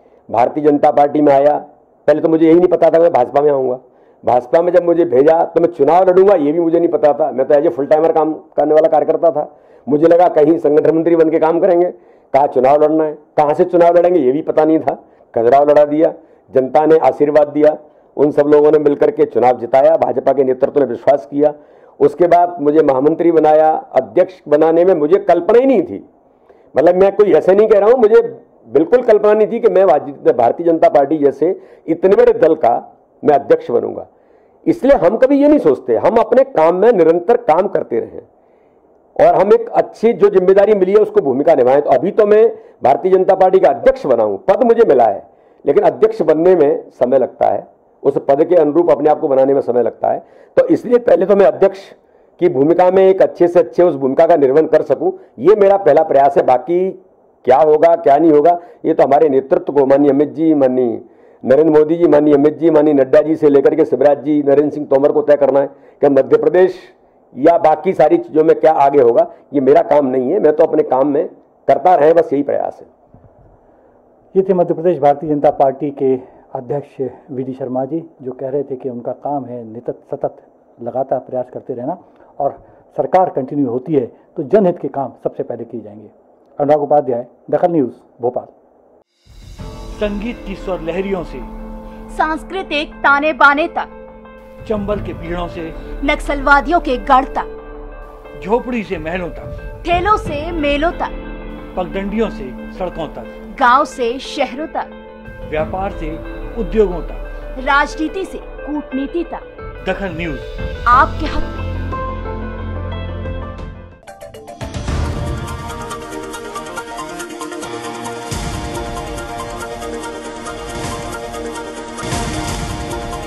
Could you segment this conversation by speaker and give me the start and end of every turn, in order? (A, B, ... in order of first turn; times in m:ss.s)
0:00.3-0:26.0 A
0:26.7-0:34.1 A
0:34.7-0:38.2 A
0:39.2-1:12.9 A
1:14.3-1:28.5 B
1:29.9-1:31.5 B
1:32.1-1:33.9 C
1:34.6-1:35.9 B
1:36.0-1:37.5 C
1:38.4-1:39.5 B
1:39.8-1:41.1 C
1:41.8-1:43.3 B
1:43.5-1:44.9 C
1:45.5-1:47.2 B
1:47.6-1:49.4 C
1:49.8-1:50.5 B
1:50.9-1:51.7 C